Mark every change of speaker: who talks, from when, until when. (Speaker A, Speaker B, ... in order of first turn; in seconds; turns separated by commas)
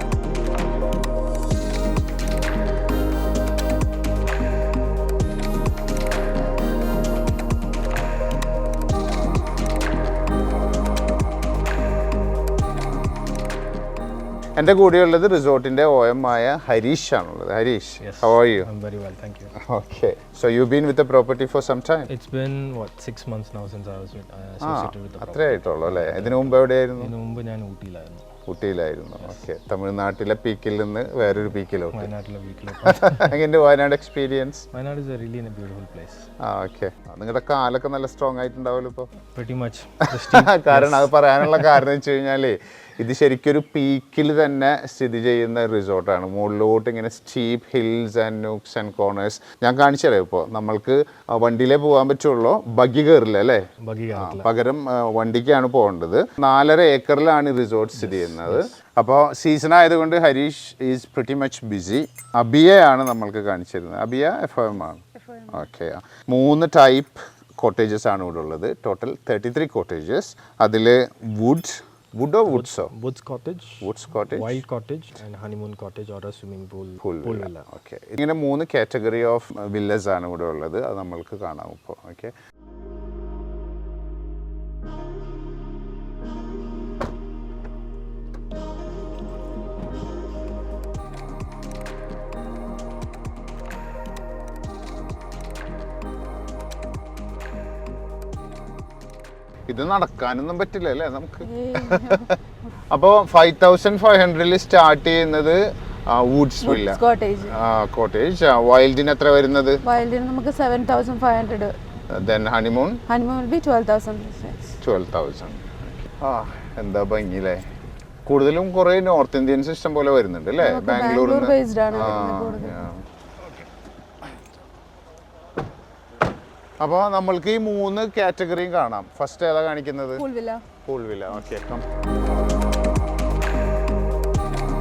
Speaker A: 14.6-18.7, Speaker B: 18.0-19.5, Speaker A: 19.6-22.1, Speaker B: 22.1-28.2, Speaker A: 24.6-27.1, Speaker A: 28.4-32.1, Speaker B: 31.9-33.4, Speaker A: 32.9-34.7, Speaker B: 34.7-36.3, Speaker A: 36.4-39.1, Speaker B: 39.3-41.8, Speaker A: 40.0-72.9, Speaker B: 53.8-54.5, Speaker B: 58.0-58.8, Speaker B: 72.5-77.7, Speaker A: 73.8-74.5, Speaker A: 77.0-82.3, Speaker A: 99.7-102.3, Speaker C: 101.4-102.3, Speaker A: 102.9-109.8, Speaker C: 106.6-107.6, Speaker C: 109.8-111.7, Speaker A: 112.1-113.0, Speaker C: 113.1-114.8, Speaker A: 114.8-117.6, Speaker A: 118.2-123.0, Speaker C: 120.6-122.8, Speaker A: 126.8-130.2, Speaker C: 130.2-130.6, Speaker A: 130.8-131.8